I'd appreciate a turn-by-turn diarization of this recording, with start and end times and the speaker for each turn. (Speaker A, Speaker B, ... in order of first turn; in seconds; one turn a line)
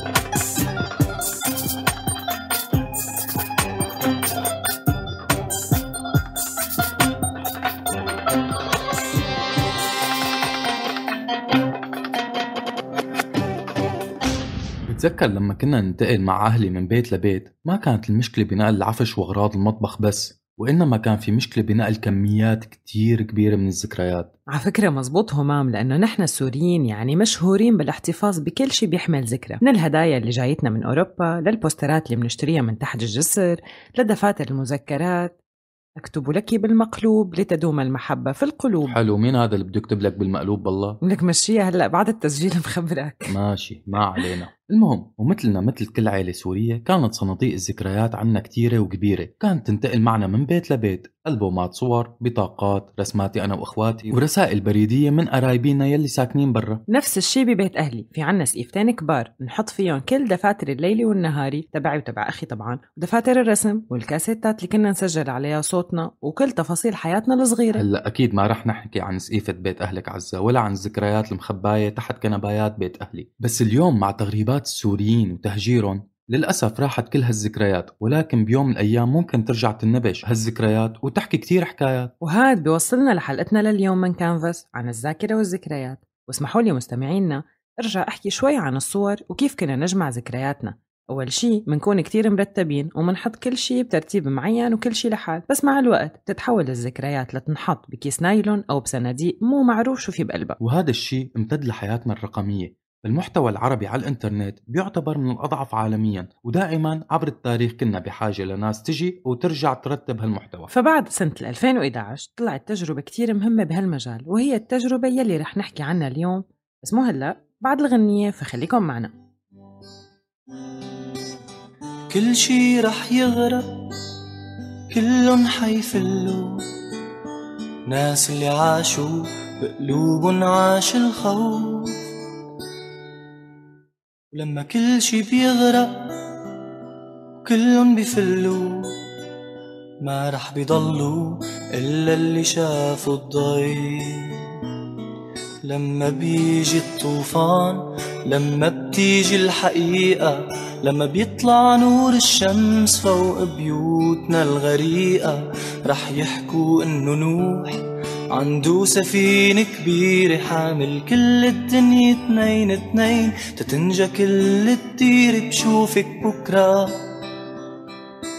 Speaker A: 14.9-24.3
Speaker B: 24.5-35.4
Speaker B: 36.0-39.0
Speaker A: 38.8-41.0
Speaker B: 41.0-43.4
Speaker A: 43.3-56.8
Speaker B: 56.9-67.8
Speaker A: 67.7-82.1
Speaker B: 82.2-100.6
Speaker A: 100.6-110.7
Speaker B: 110.7-119.1
Speaker C: 122.1-123.8
Speaker C: 124.9-126.7
Speaker C: 127.9-132.0
Speaker C: 134.3-136.1
Speaker C: 137.4-138.9
Speaker C: 140.0-144.5
Speaker C: 145.6-157.8
Speaker C: 158.3-167.0